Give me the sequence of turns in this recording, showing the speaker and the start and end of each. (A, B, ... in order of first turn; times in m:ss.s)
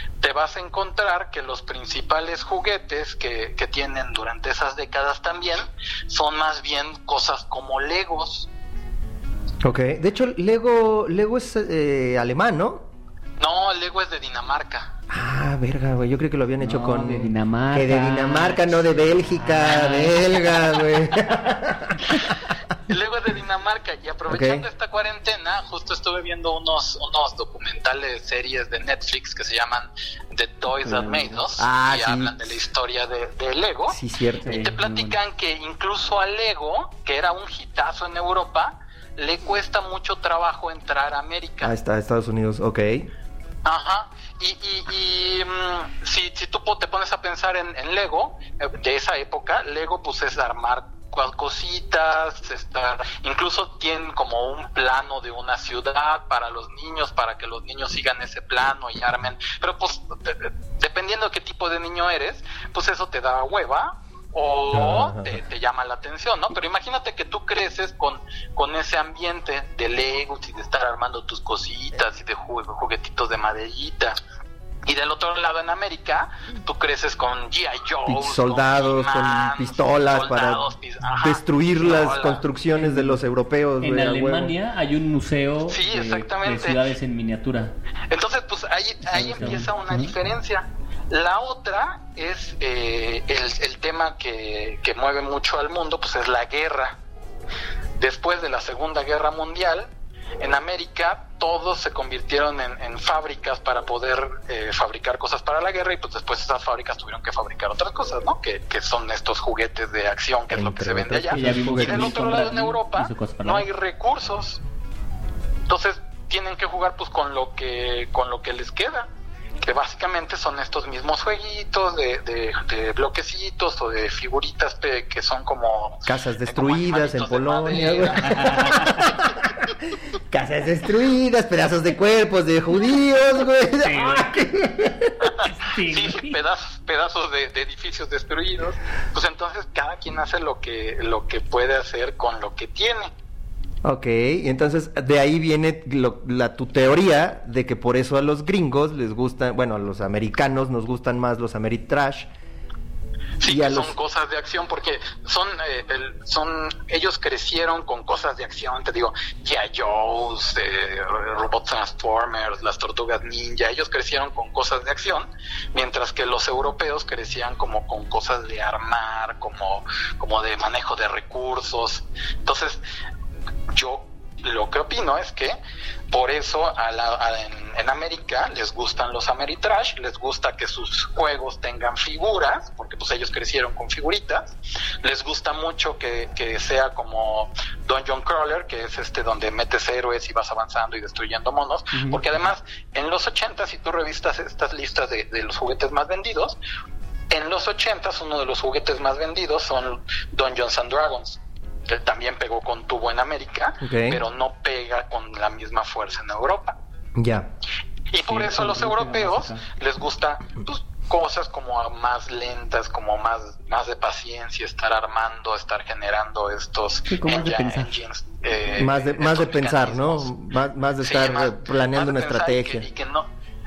0:00.2-0:08.5 A
0:09.6-0:12.9 B
0:13.4-0:14.9 A
0:15.1-0:22.2 B
0:16.6-0:20.2 C
0:22.9-0:41.7 A
0:24.3-0:24.7 B
0:30.8-0:31.4 C
0:31.6-0:32.5 B
0:33.9-0:34.6 B
0:34.4-0:35.2 C
0:41.6-0:43.1 B
0:43.6-1:14.2 A
1:04.7-1:05.4 B
1:14.9-1:22.4 A
1:18.1-1:20.6 B
1:21.2-1:24.5 B
1:22.8-1:23.2 C
1:23.8-1:27.7 C
1:25.7-1:26.9 A
1:28.1-1:37.0 A
1:29.2-1:30.1 C
1:38.0-1:54.6 A
1:50.5-1:52.2 B
1:51.3-1:53.7 C
1:55.7-1:59.1 A
1:59.6-2:09.5 A
2:06.1-2:09.5 B
2:08.2-2:09.2 C
2:10.3-2:15.3 B
2:13.8-2:14.4 C
2:15.4-2:16.4 C
2:15.8-2:23.1 A
2:23.8-2:32.3 B
2:33.4-2:52.8 A
2:33.4-2:34.0 B
2:53.7-2:55.6 A
2:56.1-3:16.6 A
3:11.9-3:12.2 C
3:17.3-3:26.8 A
3:23.8-3:24.2 B
3:27.2-3:27.5 B
3:28.1-3:40.3 A
3:28.2-3:29.7 C
3:37.1-3:37.9 C
3:38.8-3:42.9 B
3:41.0-3:43.3 A